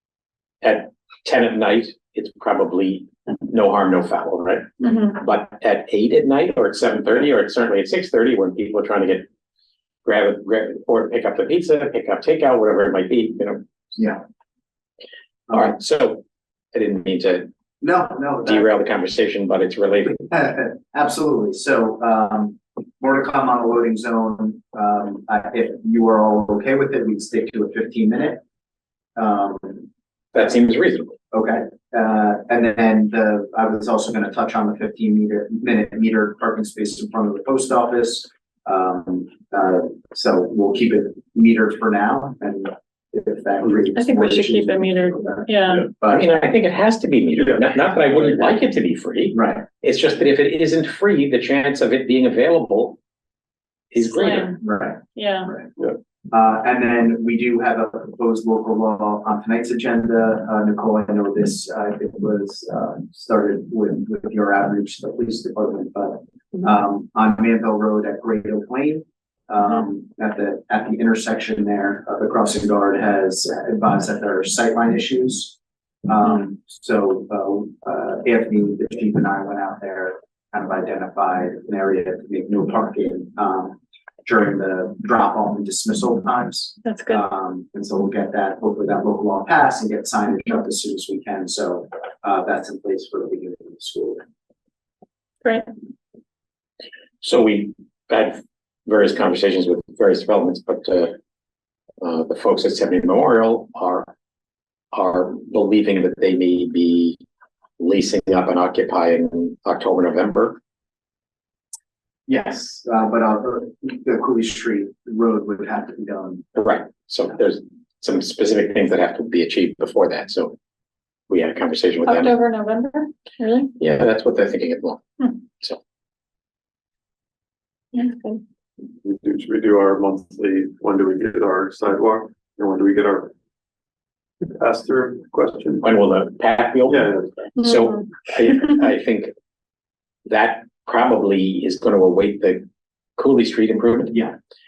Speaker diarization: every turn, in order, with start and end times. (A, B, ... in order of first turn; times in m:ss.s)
0:00.6-0:09.2 A
0:04.8-0:05.2 B
0:10.0-0:13.6 A
0:14.0-0:14.2 C
0:15.5-0:16.2 A
0:16.7-0:17.5 A
0:17.8-0:18.7 C
0:18.4-0:20.2 A
0:20.3-0:28.4 C
0:29.2-0:29.9 C
0:30.3-0:31.2 A
0:31.3-0:46.2 C
0:43.9-0:45.9 B
0:46.1-0:53.0 A
0:49.3-0:49.6 C
0:53.9-0:54.5 A
0:54.0-0:54.6 B
0:54.6-0:55.7 C
0:55.1-0:55.5 B
0:56.3-1:34.2 C
1:26.8-1:27.2 B
1:37.2-1:41.2 A
1:42.0-1:44.1 A
1:44.9-1:47.2 A
1:47.8-1:50.6 A
1:52.3-1:56.4 C
1:56.5-2:00.6 A
2:01.3-2:02.4 A
2:02.1-2:03.7 B
2:03.8-2:05.8 A
2:07.9-2:08.4 B
2:09.0-2:13.3 D
2:14.4-2:15.8 D
2:15.8-2:19.3 A
2:16.9-2:17.5 D
2:17.6-2:17.9 B
2:20.2-2:22.6 A
2:23.2-2:24.2 A